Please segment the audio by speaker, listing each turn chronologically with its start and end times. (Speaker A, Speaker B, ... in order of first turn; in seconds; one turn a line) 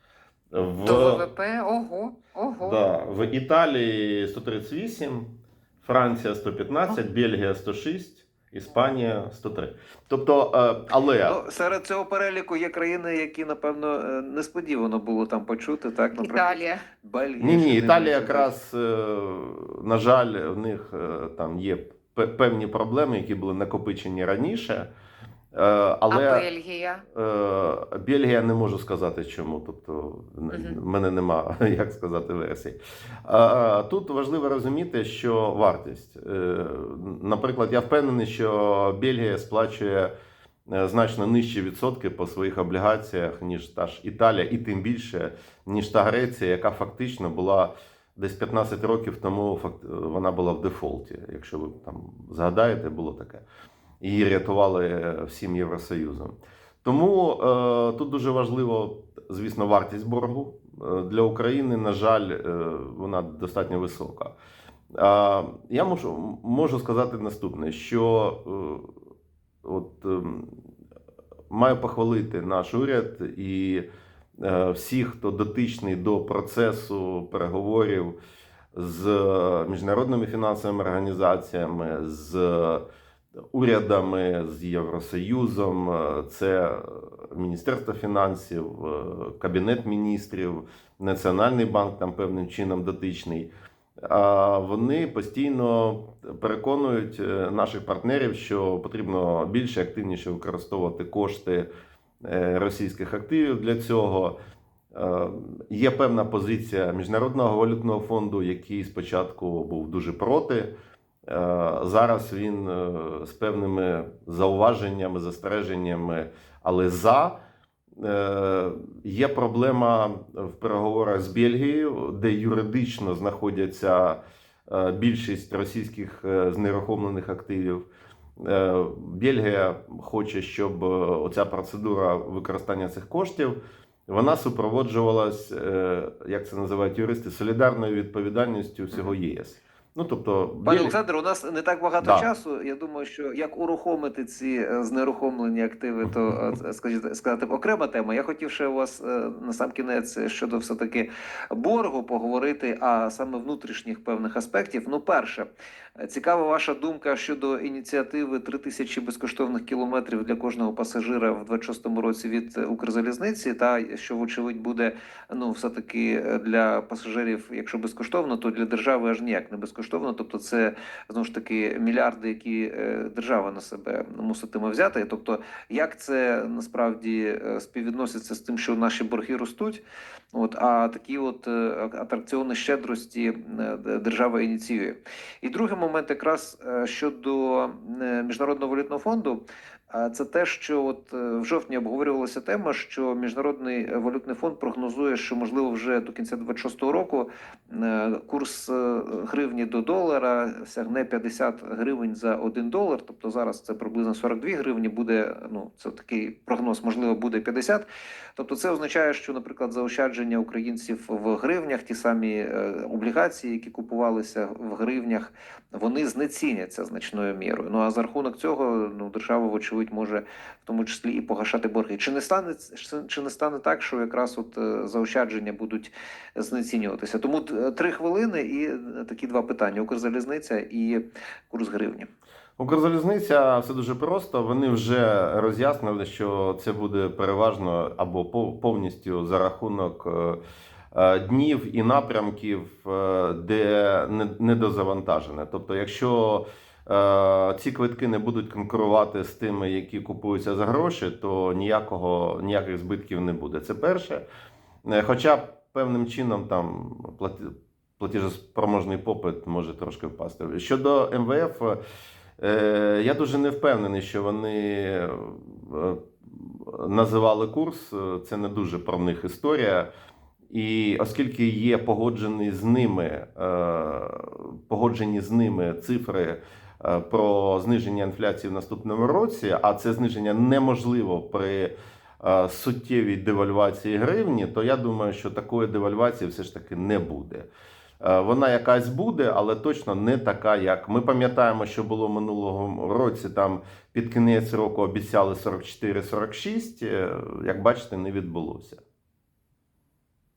Speaker A: 0.5-1.2
Speaker B: 0.8-2.8
Speaker A: 2.6-11.4
Speaker C: 11.2-18.5
Speaker B: 16.2-16.8
Speaker A: 17.4-24.9
Speaker A: 25.5-26.4
Speaker B: 26.1-27.0
Speaker A: 27.1-40.1
Speaker B: 30.5-30.8
Speaker A: 40.7-53.4
Speaker A: 54.0-64.3
Speaker A: 65.0-68.9
Speaker A: 69.6-70.6
Speaker A: 71.5-73.8
Speaker A: 74.4-78.2
Speaker A: 78.7-82.8
Speaker A: 83.5-101.7
Speaker A: 102.2-104.3
Speaker A: 104.9-110.7
Speaker A: 111.2-117.4
Speaker A: 118.0-127.8
Speaker A: 128.4-140.9
Speaker C: 140.6-232.1
Speaker A: 142.0-142.3
Speaker A: 232.6-240.4
Speaker A: 240.9-254.2
Speaker A: 254.8-261.8
Speaker A: 262.4-269.9
Speaker A: 270.5-287.5
Speaker A: 288.0-298.8